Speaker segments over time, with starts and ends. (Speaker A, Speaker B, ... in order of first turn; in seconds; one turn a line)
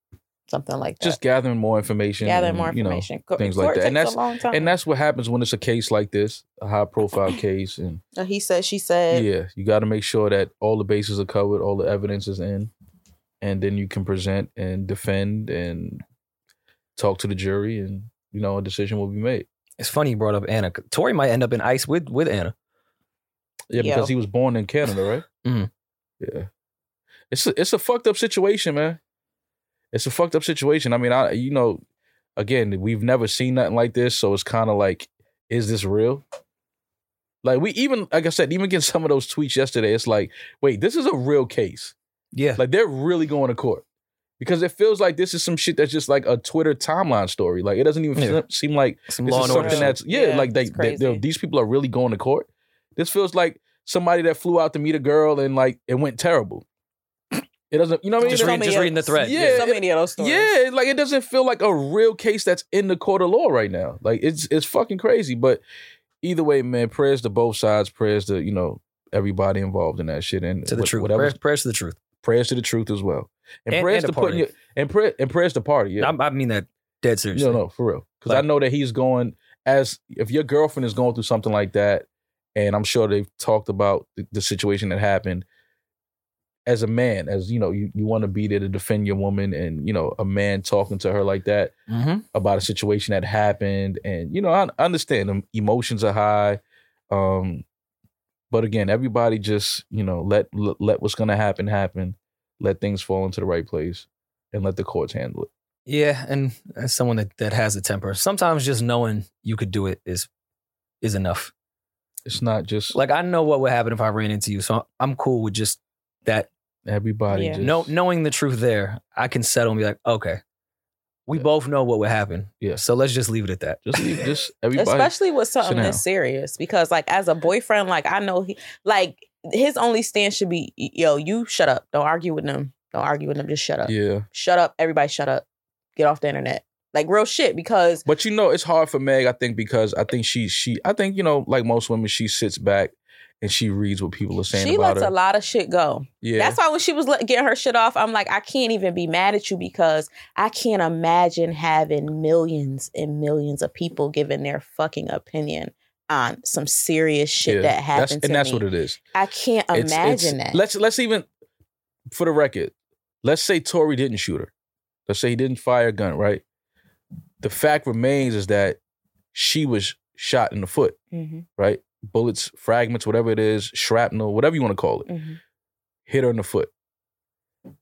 Speaker A: 0.5-1.2
Speaker B: 1.0-8.0
Speaker A: 2.2-4.7
Speaker A: 8.2-9.3
Speaker B: 9.1-12.7
Speaker B: 13.4-16.0
Speaker B: 17.0-19.5
Speaker C: 19.8-22.5
Speaker B: 23.7-25.2
Speaker A: 23.8-24.1
Speaker C: 25.4-25.7
Speaker B: 26.2-26.5
Speaker B: 27.3-29.0
Speaker B: 29.9-31.8
Speaker B: 32.4-36.2
Speaker B: 37.4-42.0
Speaker C: 42.3-42.6
Speaker B: 42.6-43.8
Speaker B: 44.4-56.6
Speaker C: 48.2-48.4
Speaker C: 49.1-50.0
Speaker A: 49.4-51.2
Speaker B: 57.7-65.6
Speaker A: 58.2-60.5
Speaker C: 58.3-59.6
Speaker B: 66.2-71.4
Speaker C: 70.7-72.0
Speaker B: 72.2-76.1
Speaker C: 73.7-74.5
Speaker C: 76.0-77.6
Speaker B: 77.3-85.5
Speaker B: 86.7-91.7
Speaker C: 91.9-92.2
Speaker B: 92.3-97.7
Speaker B: 98.5-105.5
Speaker C: 105.9-110.3
Speaker C: 111.0-111.5
Speaker B: 112.2-113.0
Speaker C: 112.9-116.5
Speaker B: 116.9-117.9
Speaker A: 117.3-117.6
Speaker C: 117.6-120.4
Speaker C: 121.3-124.2
Speaker B: 123.9-126.0
Speaker A: 124.8-135.4
Speaker B: 133.8-134.3
Speaker A: 136.0-138.1
Speaker B: 138.1-145.1
Speaker A: 144.5-160.6
Speaker B: 146.2-146.6
Speaker B: 157.4-159.0
Speaker B: 159.7-161.3
Speaker B: 162.1-164.5
Speaker B: 165.1-166.4
Speaker B: 167.4-168.8
Speaker B: 169.3-171.0
Speaker A: 171.1-171.5
Speaker B: 171.6-175.1
Speaker A: 175.1-175.4
Speaker B: 176.1-176.7